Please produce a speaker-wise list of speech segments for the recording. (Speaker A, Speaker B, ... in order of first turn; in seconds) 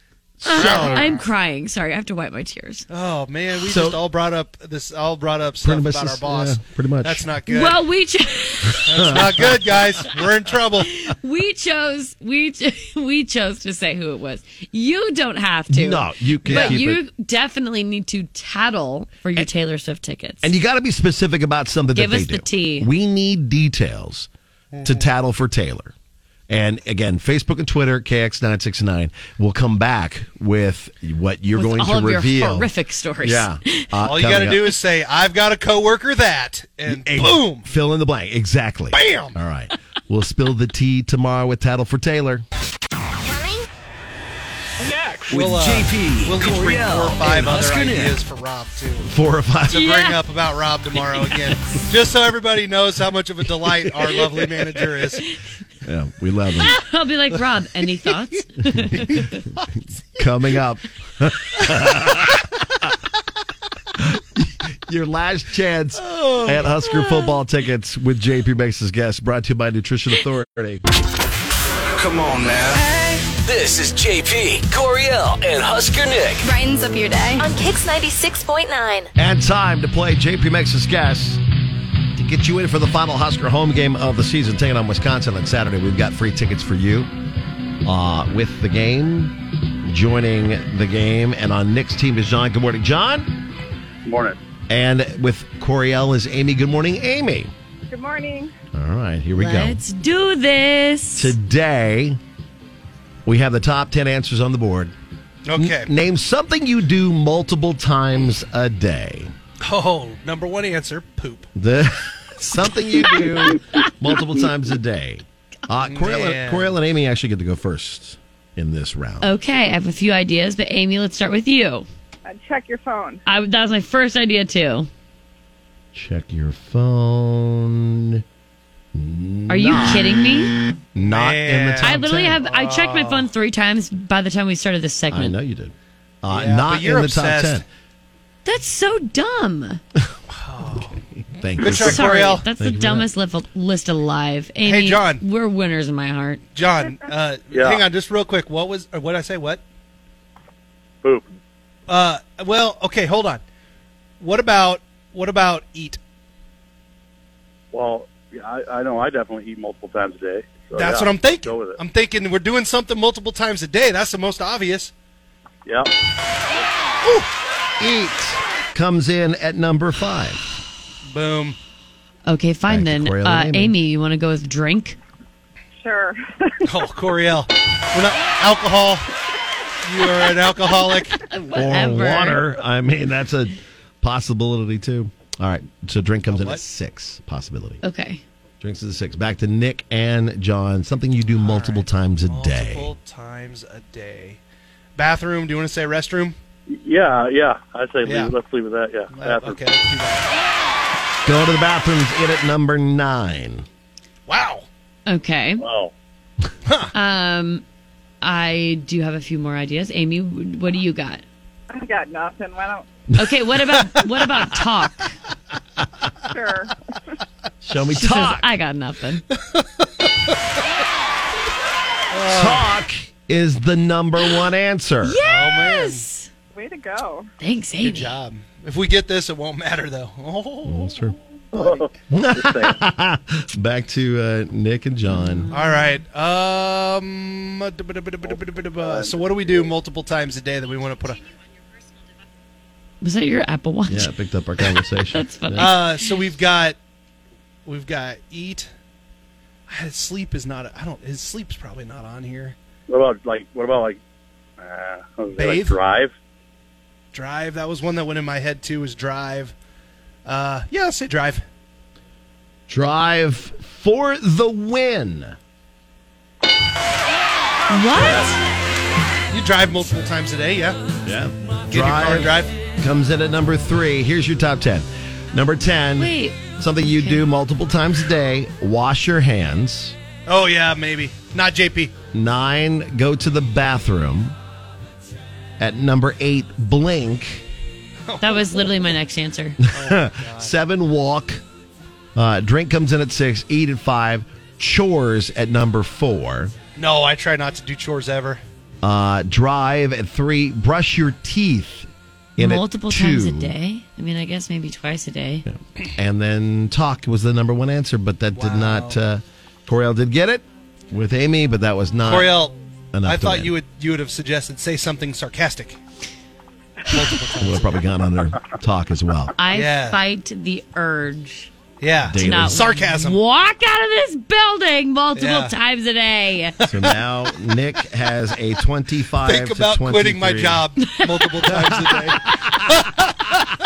Speaker A: 0.4-1.2, 3.6-4.0, 5.6-7.3, 8.7-9.9, 15.7-17.0, 20.4-24.3, 24.8-25.9, 26.5-32.7, 33.2-34.8, 36.9-42.4, 49.0-49.9, 55.8-56.8, 58.8-59.3, 60.1-62.5, 64.0-70.8, 79.2-81.4, 82.1-87.1, 87.8-93.3, 94.7-97.5, 98.7-99.8, 101.2-102.2, 103.2-104.9, 105.5-109.3, 111.5-119.3, 125.9-128.2, 128.9-130.3, 130.9-132.4, 135.1-137.6, 141.3-143.1, 167.0-170.5, 172.7-173.7, 181.5-187.8, 188.6-192.9, 201.2-203.7, 217.6-218.5, 222.2-225.2, 230.6-231.2, 232.1-235.5, 243.9-245.8, 262.7-265.4, 271.0-279.9, 282.1-284.4, 285.6-287.4, 289.6-291.4, 292.1-296.5, 298.8-303.5, 305.4-312.4, 312.9-313.5, 317.4-319.3, 322.0-322.7, 326.7-330.6, 331.4-332.6
Speaker B: 0.4-2.9, 7.5-9.2, 11.0-20.5, 21.9-22.9, 31.5-33.9, 49.7-50.2, 56.6-59.4, 99.3-101.3, 119.2-121.9, 123.2-124.9, 129.5-130.6, 131.8-135.3, 138.4-139.8, 141.6-146.4, 172.2-175.0, 181.3-182.4, 187.8-188.2, 205.1-205.7, 206.9-207.6, 208.2-211.2, 213.1-215.1, 217.9-219.2, 225.0-226.3, 227.4-228.1, 235.1-235.8, 243.0-244.1, 244.8-245.9, 267.7-268.4, 276.0-277.2, 288.2-289.6, 302.4-305.4, 319.4-321.5, 322.2-326.6, 330.8-331.3
Speaker C: 0.5-1.2, 2.9-7.8, 8.9-10.9, 16.5-16.8, 24.7-25.1, 34.0-37.7, 38.9-39.4, 45.3-49.1, 49.7-55.3, 66.0-66.7, 105.5-105.9, 109.6-111.5, 115.8-116.7, 131.0-133.3, 136.3-137.6, 140.3-140.9, 141.6-142.4, 144.6-145.2, 146.6-149.6, 151.9-153.4, 154.2-156.0, 160.7-164.9, 171.1-171.6, 176.6-179.1, 179.8-181.2, 186.3-186.6, 191.3-194.4, 194.9-196.3, 198.0-198.4, 199.1-200.2, 204.3-204.7, 206.7-206.9, 222.1-222.7, 225.2-226.0, 227.8-230.9, 235.5-241.2, 245.5-246.8, 247.7-248.7, 249.7-252.6, 255.3-255.8, 257.1-259.5, 260.2-261.4, 269.3-270.8, 271.7-272.5, 280.3-281.9, 288.1-288.7, 289.7-290.5, 296.8-298.4, 308.3-309.0, 312.0-315.8, 316.9-317.8, 319.5-320.0, 321.8-323.2, 325.1-325.5, 326.6-327.0, 329.2-333.0
Speaker D: 43.2-43.6, 77.2-79.1
Speaker E: 45.3-48.2, 73.4-76.5
Speaker F: 94.0-94.4, 147.5-147.8, 151.0-151.3, 157.7-161.8, 196.7-199.6, 205.6-205.9, 231.6-231.9, 238.8-239.6, 252.9-254.0, 254.6-256.1
Speaker G: 97.9-98.5, 122.2-123.2, 175.8-176.2, 211.7-212.9, 216.3-216.7, 226.5-227.3